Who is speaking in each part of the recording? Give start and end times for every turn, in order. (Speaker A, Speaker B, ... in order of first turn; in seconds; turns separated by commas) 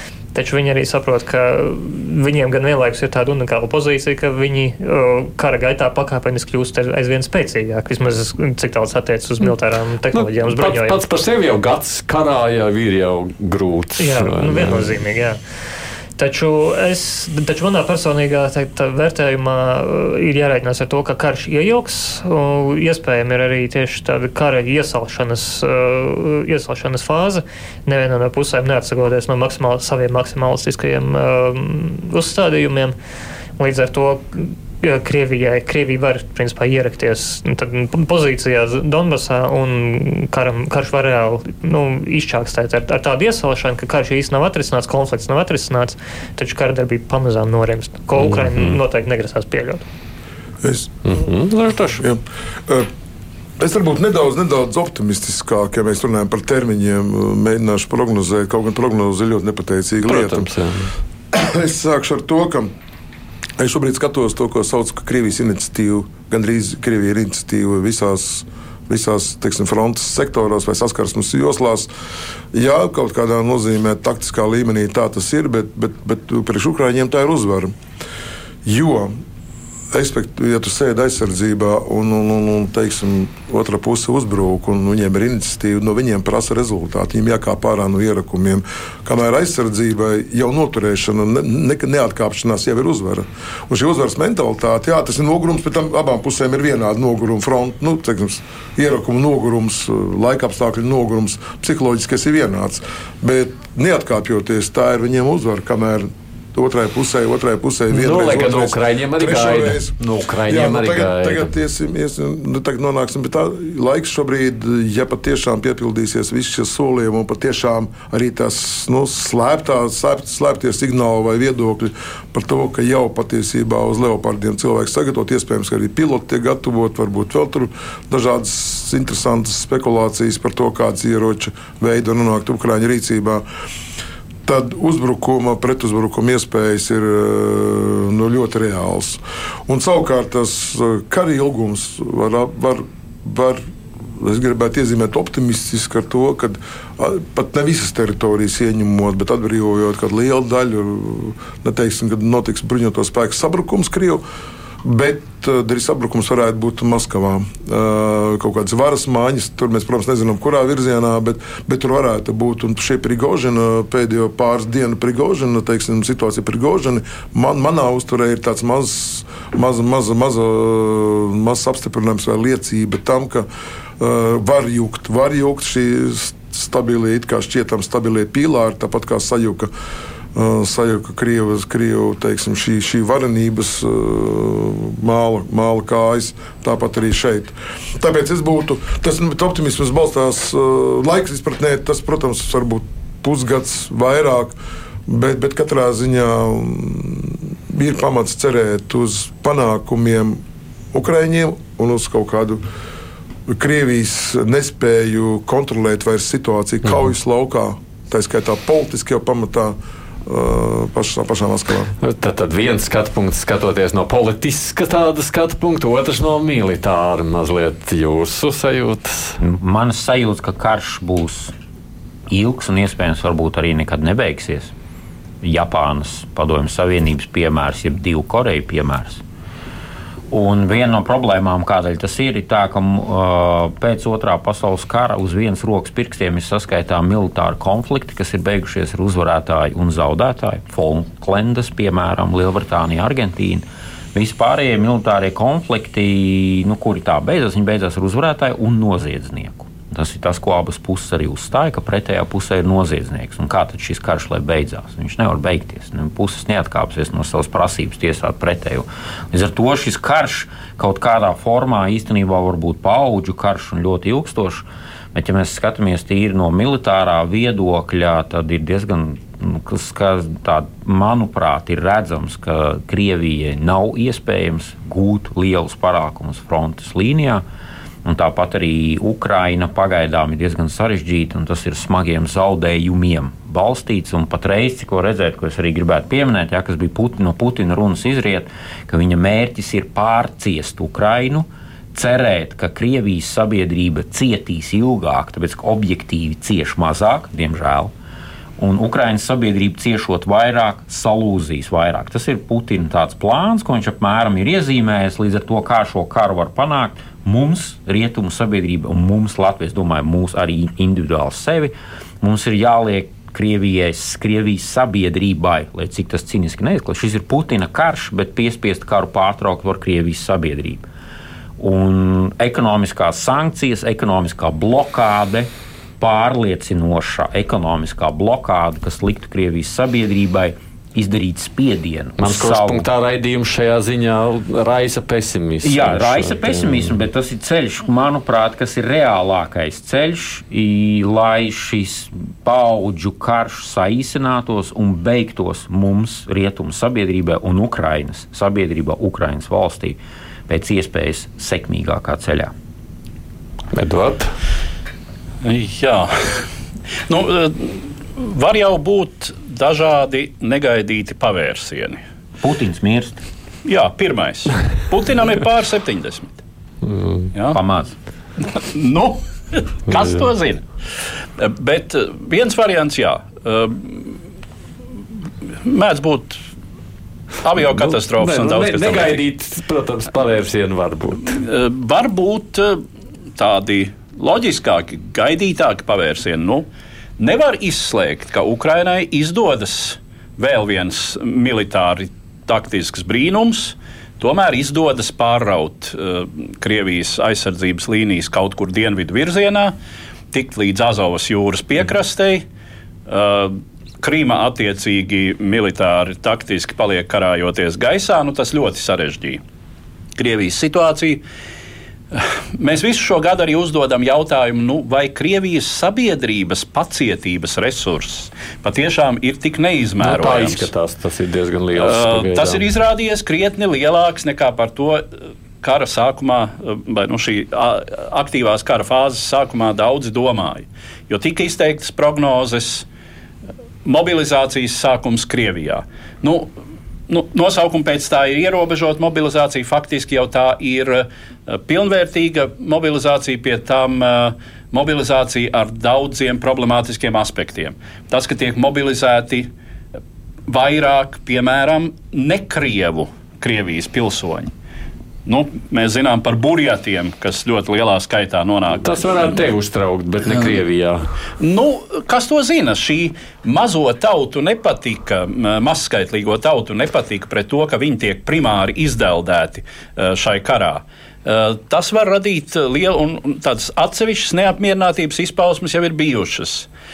Speaker A: 0.3-11.0, Speaker B: 10.1-15.0, Speaker A: 14.0-15.4, Speaker A: 16.2-33.0, Speaker A: 33.6-49.8, Speaker B: 48.2-48.8, Speaker C: 50.6-51.2, Speaker B: 51.0-52.0, Speaker C: 52.0-52.9, Speaker C: 53.6-60.5, Speaker B: 60.1-60.9, Speaker C: 61.3-62.7, Speaker C: 63.6-71.9, Speaker C: 72.5-77.7, Speaker C: 78.7-79.1, Speaker C: 79.9-133.4, Speaker B: 107.9-111.5, Speaker C: 134.4-143.6, Speaker C: 144.2-154.2, Speaker C: 154.8-173.5, Speaker C: 174.0-179.7, Speaker C: 180.3-194.6, Speaker C: 195.1-200.4, Speaker C: 200.9-202.6, Speaker C: 203.5-211.9, Speaker B: 212.0-219.4, Speaker D: 219.4-221.5, Speaker D: 222.3-224.7, Speaker D: 225.4-229.2, Speaker D: 230.3-277.4, Speaker D: 278.1-297.9, Speaker D: 298.6-320.9, Speaker D: 321.6-332.9, Speaker B: 332.2-336.9, Speaker D: 335.6-352.5, Speaker B: 353.7-354.3, Speaker E: 355.4-356.5, Speaker E: 357.1-362.0, Speaker D: 362.4-363.2, Speaker E: 363.6-366.4, Speaker B: 366.8-367.3, Speaker D: 367.5-368.0, Speaker E: 368.4-370.6, Speaker B: 369.9-370.2, Speaker E: 371.4-374.2, Speaker E: 375.6-376.4, Speaker E: 377.4-379.2, Speaker B: 377.6-381.4, Speaker E: 381.3-382.8, Speaker E: 383.4-386.7, Speaker E: 387.2-399.8, Speaker E: 400.3-402.4, Speaker E: 403.1-409.4, Speaker E: 410.2-411.2, Speaker E: 412.1-420.7, Speaker B: 420.0-422.6, Speaker E: 421.7-425.1, Speaker E: 425.6-432.9, Speaker E: 433.9-436.5, Speaker E: 437.1-449.5, Speaker E: 450.5-454.5, Speaker E: 455.3-459.4, Speaker B: 458.8-461.1, Speaker E: 461.4-476.7